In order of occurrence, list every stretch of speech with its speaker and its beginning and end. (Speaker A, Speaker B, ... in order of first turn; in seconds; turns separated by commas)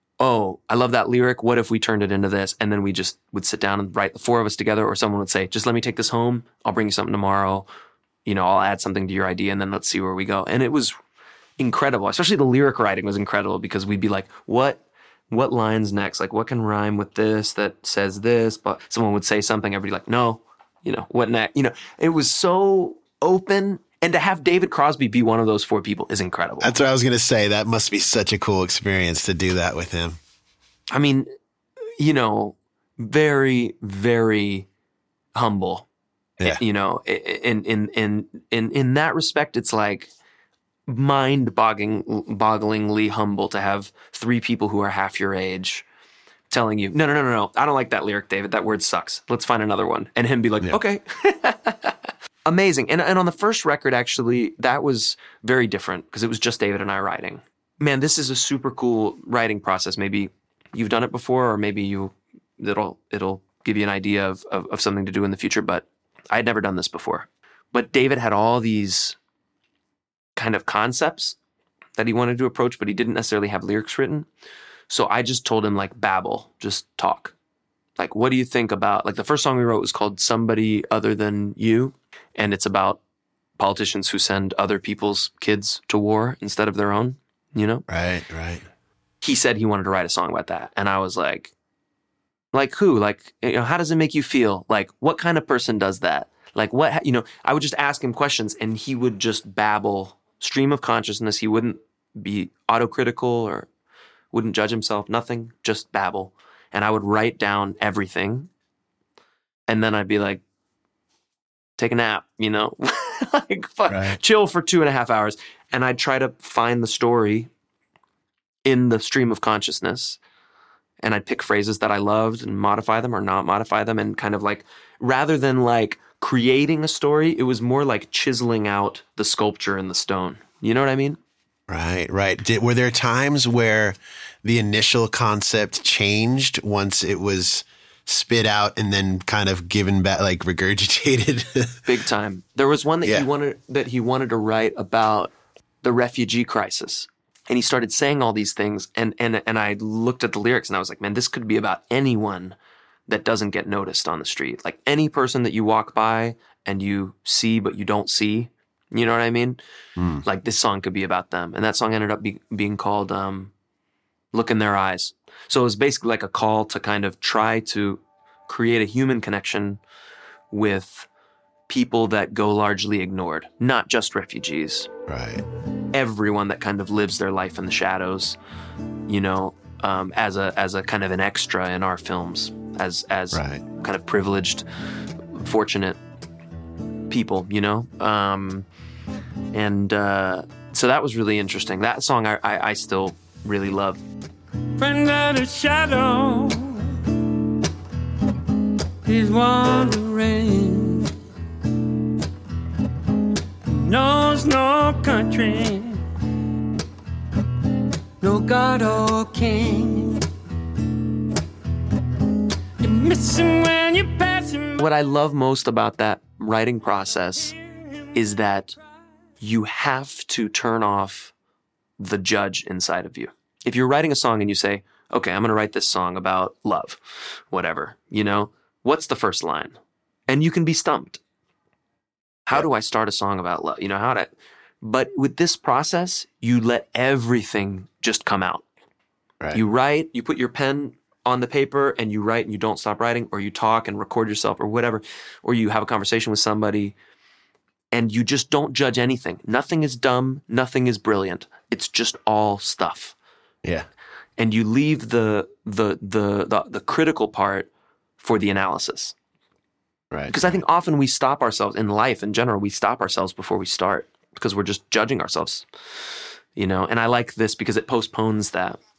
Speaker A: 0.2-7.7, Speaker A: 8.2-10.9, Speaker A: 11.6-26.8, Speaker B: 26.6-30.2, Speaker A: 30.9-31.3, Speaker A: 32.0-34.7, Speaker A: 35.3-35.9, Speaker A: 36.4-40.1, Speaker A: 40.9-45.8, Speaker A: 46.5-69.2, Speaker A: 70.4-71.3, Speaker A: 72.0-74.3, Speaker A: 74.9-77.3, Speaker A: 78.0-83.0, Speaker A: 83.6-87.8, Speaker B: 87.9-88.6, Speaker A: 89.2-91.5, Speaker A: 92.5-103.7, Speaker A: 104.3-108.5, Speaker A: 109.7-110.4, Speaker A: 111.8-117.5, Speaker B: 113.9-114.2, Speaker A: 118.7-120.2, Speaker A: 121.0-131.2, Speaker B: 131.7-141.8, Speaker A: 141.8-152.6, Speaker A: 153.1-159.6, Speaker B: 160.0-160.2, Speaker A: 160.2-163.5, Speaker A: 164.3-169.8, Speaker A: 170.5-171.1, Speaker A: 171.7-174.9, Speaker B: 175.1-175.4, Speaker A: 175.9-178.4, Speaker A: 179.1-184.6, Speaker B: 183.3-183.6, Speaker A: 185.3-186.0, Speaker A: 187.1-188.7, Speaker A: 189.5-194.0, Speaker C: 194.8-196.9, Speaker C: 199.1-201.1, Speaker C: 203.8-206.0, Speaker A: 204.9-205.5, Speaker C: 208.2-210.2, Speaker C: 212.8-214.6, Speaker A: 213.8-217.6, Speaker A: 218.1-218.8, Speaker A: 219.4-221.3, Speaker A: 222.0-229.8, Speaker A: 230.3-231.2, Speaker A: 232.5-234.3, Speaker A: 234.8-238.6, Speaker A: 239.5-246.9, Speaker A: 247.9-253.1, Speaker A: 254.4-257.7, Speaker A: 258.2-259.1, Speaker B: 260.1-260.6, Speaker A: 260.3-265.6, Speaker A: 266.6-268.8